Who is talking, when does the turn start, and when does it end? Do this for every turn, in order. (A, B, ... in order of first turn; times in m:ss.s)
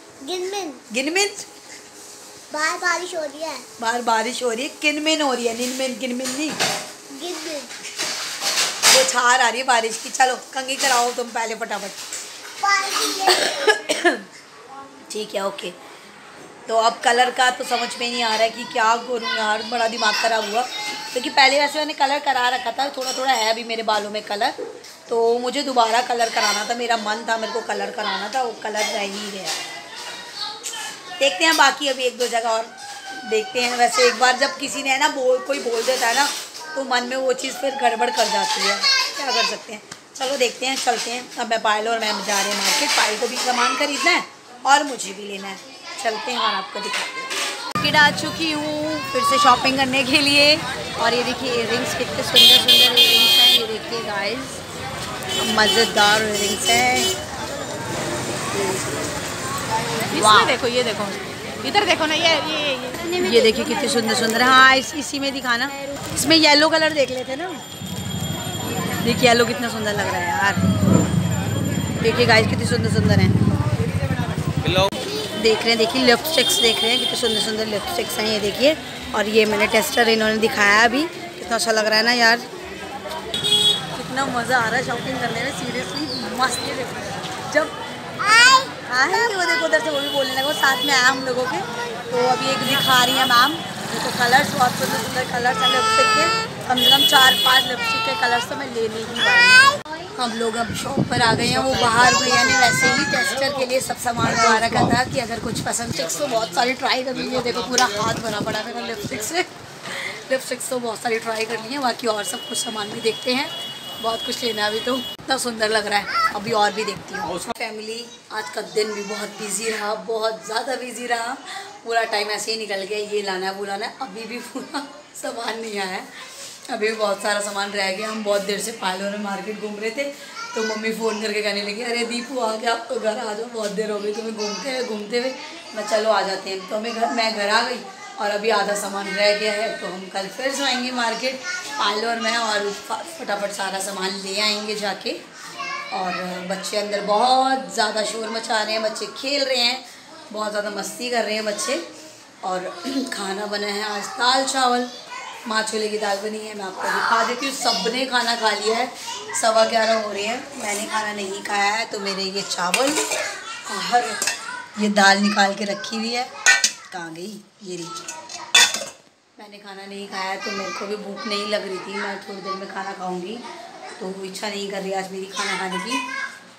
0:00.2-0:00.8 A
0:00.9-0:01.4 B
0:02.5-0:03.6 A
0:03.8-0:06.6 B
0:07.1-0:07.7 A
0:08.9-0:12.0 B
0:12.6-0:13.8 A
0:13.3-0:14.2 B
0:15.1-0:15.8 B
0:16.6-0:24.5 B
0:25.1-0:29.6 B
0:31.2-0:54.6 B
0:55.4-0:57.1 B
0:58.5-0:59.0 B
1:00.1-1:03.1 C
1:00.1-1:00.6 B
1:03.0-1:07.6 B
1:09.0-1:10.6 B
1:12.0-1:13.4 B
1:15.4-1:22.5 B
1:23.9-1:27.8 B
1:28.8-2:25.2 B
2:25.9-2:31.8 B
2:32.4-2:34.9 B
2:35.4-2:43.0 B
2:43.6-2:44.2 B
2:44.8-2:46.3 B
2:46.9-2:48.0 B
2:49.4-2:53.4 B
2:54.0-2:56.0 B